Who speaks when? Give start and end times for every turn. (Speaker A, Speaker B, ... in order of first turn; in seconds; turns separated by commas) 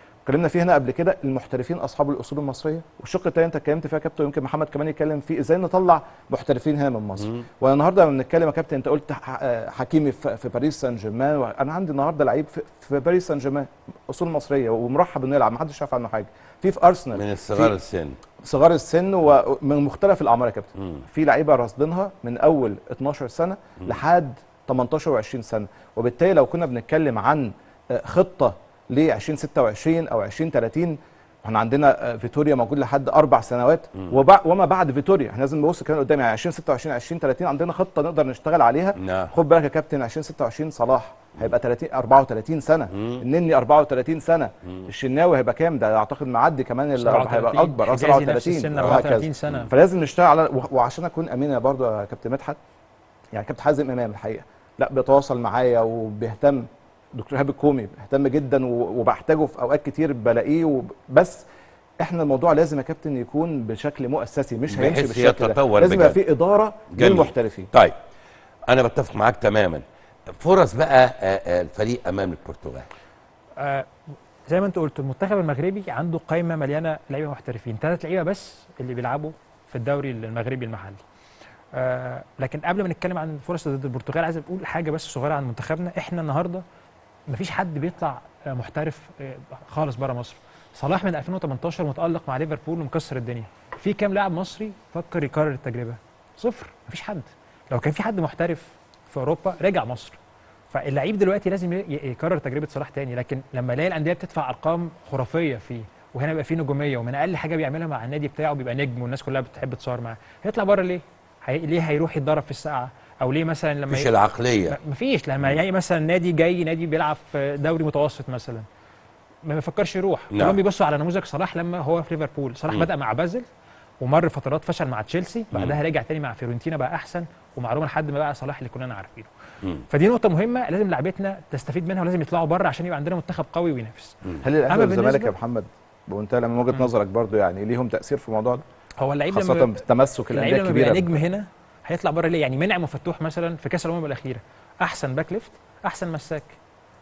Speaker A: 0.2-17.7, Speaker B: 17.1-18.2, Speaker A: 18.4-52.6, Speaker B: 39.0-39.3, Speaker B: 42.9-43.2, Speaker C: 47.0-49.7, Speaker B: 48.8-49.7, Speaker A: 53.3-61.4, Speaker A: 62.0-67.7, Speaker B: 64.7-66.2, Speaker B: 66.9-67.9, Speaker B: 68.7-69.8, Speaker B: 70.3-72.9, Speaker C: 73.6-73.9, Speaker C: 74.5-81.0, Speaker C: 81.7-86.6, Speaker C: 87.3-100.2, Speaker C: 100.7-114.1, Speaker B: 113.9-114.8, Speaker C: 114.7-118.6, Speaker C: 119.4-123.4, Speaker B: 120.3-120.6, Speaker C: 124.0-129.3, Speaker B: 125.5-125.8, Speaker C: 129.9-135.3, Speaker A: 134.4-138.6, Speaker C: 139.0-146.6, Speaker A: 139.3-141.1